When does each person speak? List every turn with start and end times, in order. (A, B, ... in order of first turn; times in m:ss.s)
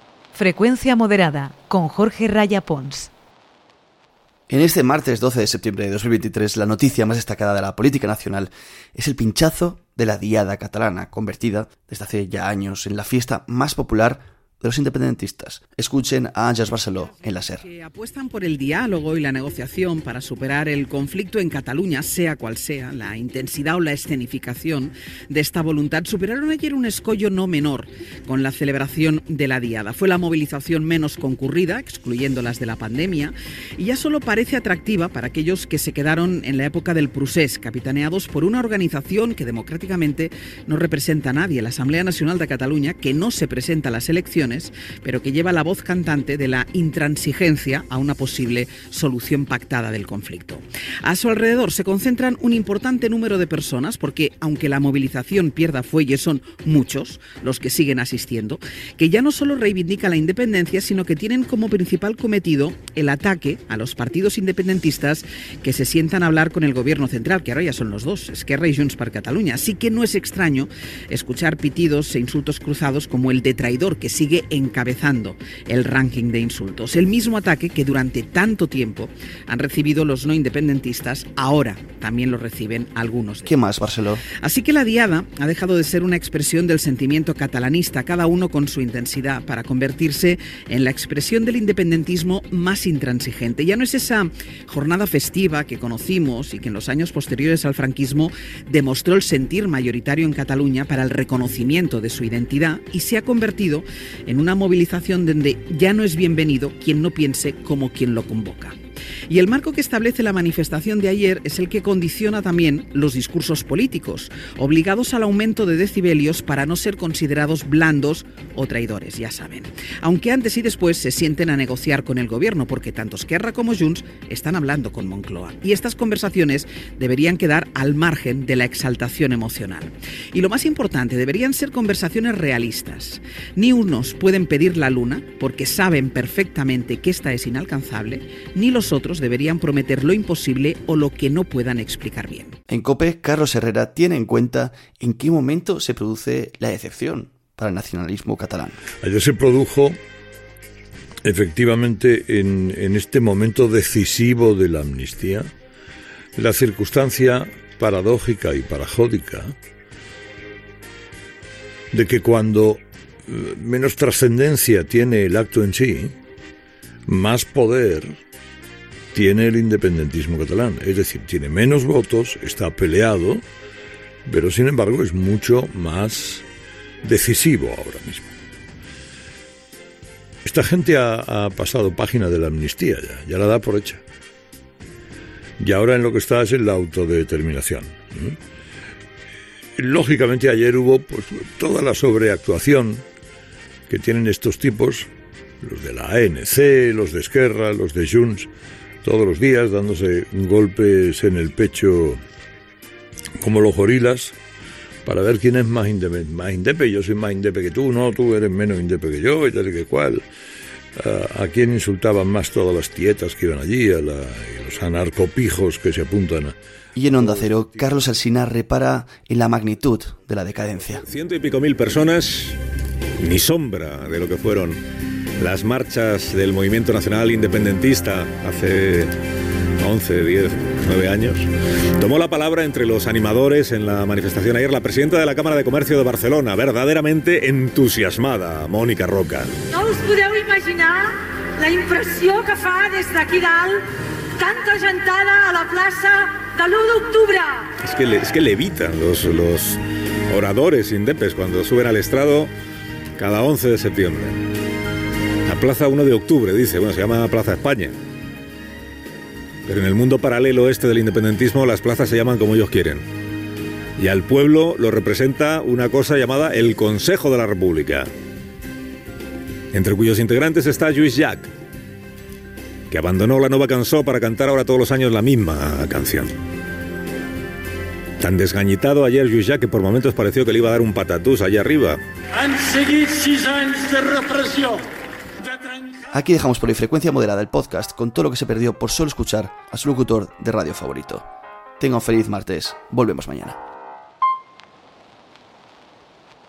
0:00.3-0:03.1 A
0:04.5-0:17.6 B
0:16.9-1:23.5 C
1:23.4-1:24.2 B
1:24.4-1:48.8 C
1:49.3-2:22.6 C
2:22.7-2:28.8 B
2:29.0-2:30.0 D
2:31.2-2:35.5 D
2:36.4-2:39.5 D
2:41.9-2:46.2 D
2:47.1-2:48.2 D
2:49.1-2:53.4 D
2:54.2-2:56.4 D
2:57.0-2:58.3 D
3:00.4-3:04.0 D
3:05.6-3:08.4 D
3:09.8-3:13.0 D
3:13.9-3:15.1 D
3:15.6-3:18.5 D
3:19.0-3:22.2 D
3:23.4-3:24.4 D
3:25.0-3:30.2 D
3:31.0-3:36.6 D
3:36.9-3:41.0 B
3:41.0-3:42.6 E
3:43.2-3:44.8 E
3:45.4-3:49.1 E
3:49.8-3:59.5 E
3:59.7-4:07.7 F
4:07.8-4:12.5 E
4:13.2-4:14.4 E
4:15.4-4:17.9 E
4:19.6-4:23.0 E
4:24.0-4:28.1 E
4:29.7-4:31.5 E
4:32.9-4:36.3 E
4:38.2-4:42.0 E
4:42.7-4:44.6 E
4:46.1-4:51.2 B
4:51.8-4:53.6 B